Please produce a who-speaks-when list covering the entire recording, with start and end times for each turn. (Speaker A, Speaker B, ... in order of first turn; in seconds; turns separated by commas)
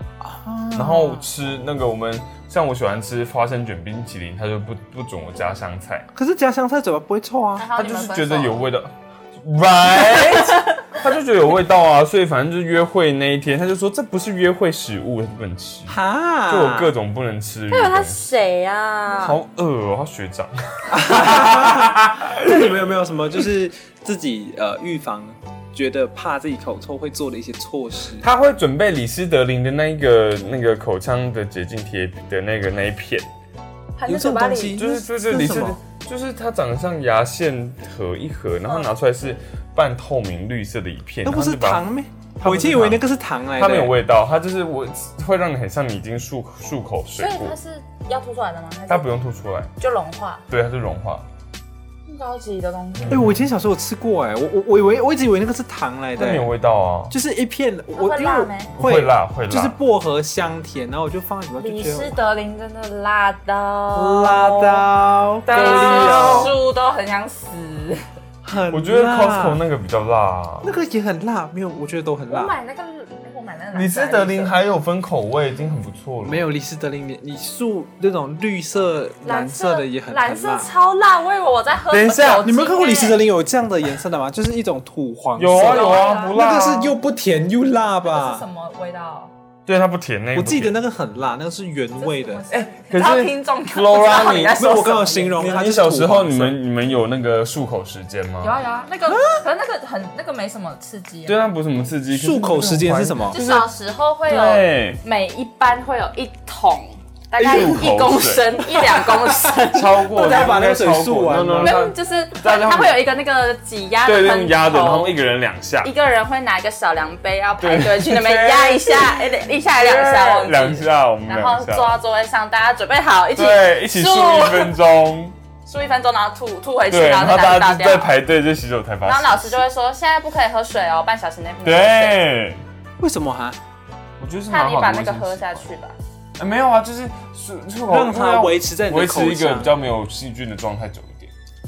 Speaker A: 0.2-1.3, Speaker B: 0.7-6.1, Speaker A: 6.1-7.7, Speaker C: 7.6-8.6, Speaker B: 7.8-18.3, Speaker C: 10.1-10.7, Speaker A: 15.9-16.9, Speaker C: 17.7-19.4, Speaker B: 19.1-22.4, Speaker A: 20.9-28.2, Speaker B: 28.2-33.3, Speaker C: 34.0-34.9, Speaker A: 34.0-35.8, Speaker B: 34.8-41.9, Speaker A: 41.2-44.0, Speaker B: 42.4-43.0, Speaker B: 43.6-47.6, Speaker C: 47.2-49.1, Speaker B: 48.9-49.7, Speaker C: 49.8-50.4, Speaker B: 50.5-51.2, Speaker C: 52.1-53.3, Speaker B: 53.0-53.4, Speaker A: 53.1-56.5, Speaker B: 56.2-57.1, Speaker A: 57.1-62.2, Speaker C: 57.9-58.7, Speaker B: 58.8-59.8, Speaker C: 61.6-64.9, Speaker A: 63.9-66.6, Speaker B: 65.5-66.5, Speaker C: 65.5-68.1, Speaker A: 68.4-69.6, Speaker B: 68.7-70.7, Speaker A: 70.6-72.5, Speaker C: 72.3-74.6, Speaker B: 73.7-76.4, Speaker A: 76.2-80.7, Speaker C: 79.2-83.2, Speaker B: 81.9-82.5, Speaker A: 82.4-88.5, Speaker B: 85.4-87.0, Speaker C: 85.5-86.4, Speaker C: 88.1-89.3, Speaker B: 89.7-90.8, Speaker A: 90.3-92.5, Speaker C: 92.0-95.6, Speaker B: 92.5-94.6, Speaker A: 94.5-96.6, Speaker B: 95.4-98.6, Speaker C: 98.4-101.4, Speaker B: 101.3-103.7, Speaker A: 102.1-103.4, Speaker C: 103.3-110.6, Speaker B: 104.3-105.0, Speaker B: 107.4-108.7, Speaker B: 109.4-113.0, Speaker A: 110.1-111.8, Speaker C: 111.6-115.2, Speaker B: 114.0-115.9, Speaker C: 115.8-124.8, Speaker B: 117.6-122.0, Speaker B: 123.3-125.4, Speaker C: 125.7-128.1, Speaker B: 126.9-129.7, Speaker C: 129.1-132.2, Speaker B: 131.6-132.7, Speaker A: 133.0-133.6, Speaker B: 134.2-135.7, Speaker C: 134.5-135.9, Speaker B: 136.4-141.3, Speaker A: 137.9-139.8